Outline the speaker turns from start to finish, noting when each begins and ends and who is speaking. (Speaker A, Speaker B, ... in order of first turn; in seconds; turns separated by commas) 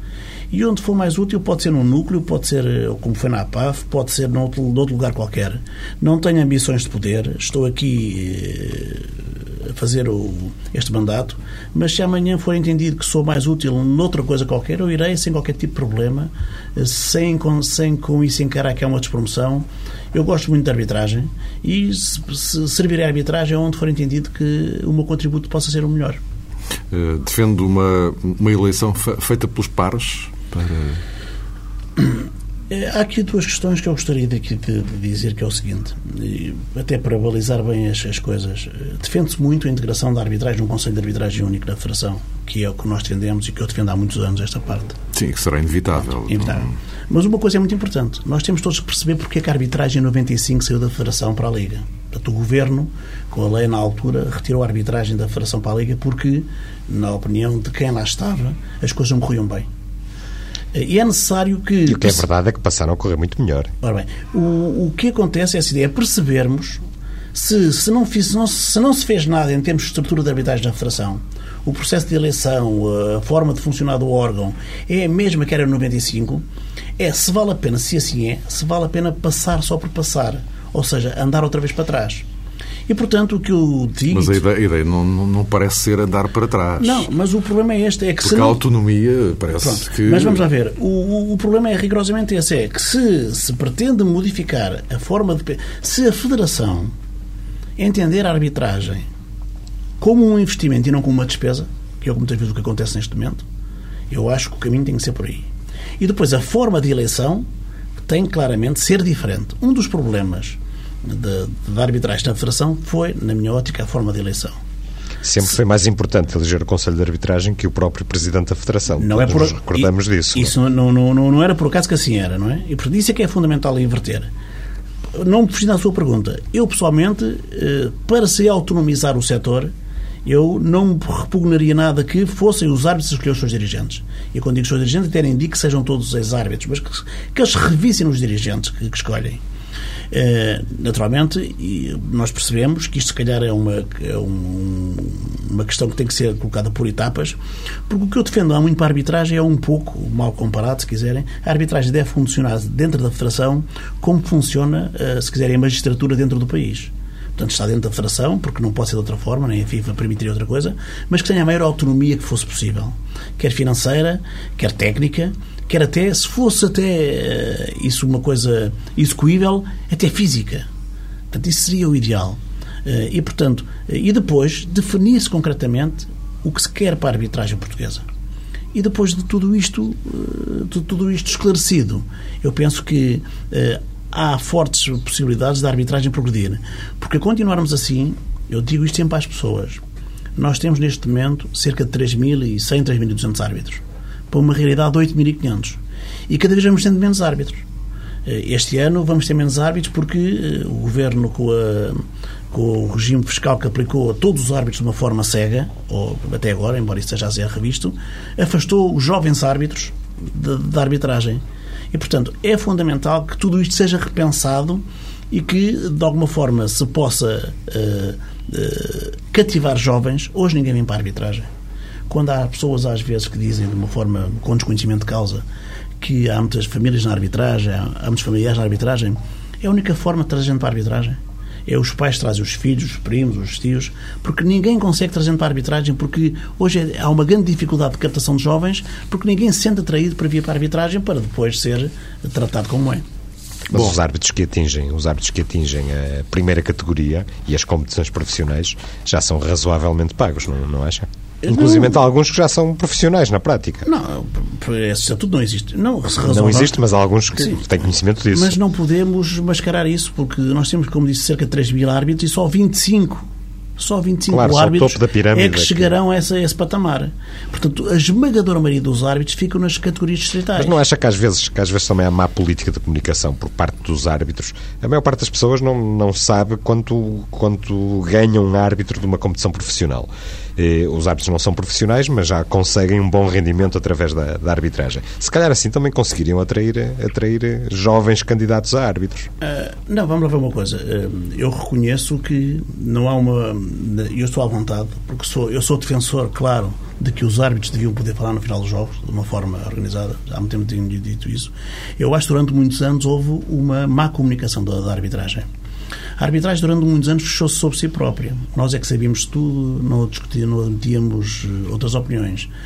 Speaker A: 0.5-26.2, Speaker B: 26.9-31.0, Speaker A: 32.0-45.0, Speaker B: 45.1-46.7, Speaker A: 46.3-59.7, Speaker A: 60.7-62.2, Speaker C: 61.9-63.7, Speaker A: 63.8-66.8, Speaker A: 67.3-76.4, Speaker A: 77.0-82.3, Speaker A: 82.9-84.4, Speaker B: 84.1-87.1, Speaker A: 86.8-88.6, Speaker B: 88.2-90.5, Speaker A: 89.6-96.9, Speaker A: 97.8-99.1, Speaker A: 100.0-103.5, Speaker A: 104.1-107.5, Speaker A: 108.1-114.5, Speaker C: 115.2-120.5, Speaker A: 119.0-124.3, Speaker A: 125.1-129.7, Speaker A: 130.2-139.4, Speaker A: 140.1-170.7, Speaker A: 171.3-178.1, Speaker A: 178.7-189.8, Speaker A: 190.4-197.6, Speaker A: 198.3-221.5, Speaker A: 222.1-225.4, Speaker A: 226.0-243.0, Speaker C: 243.7-253.9, Speaker A: 251.4-252.0, Speaker A: 253.9-256.8, Speaker C: 256.2-258.6, Speaker A: 257.4-257.6, Speaker A: 258.3-263.2, Speaker A: 263.8-270.8, Speaker C: 264.3-265.9, Speaker C: 270.6-289.3, Speaker A: 289.4-305.5, Speaker A: 306.2-312.5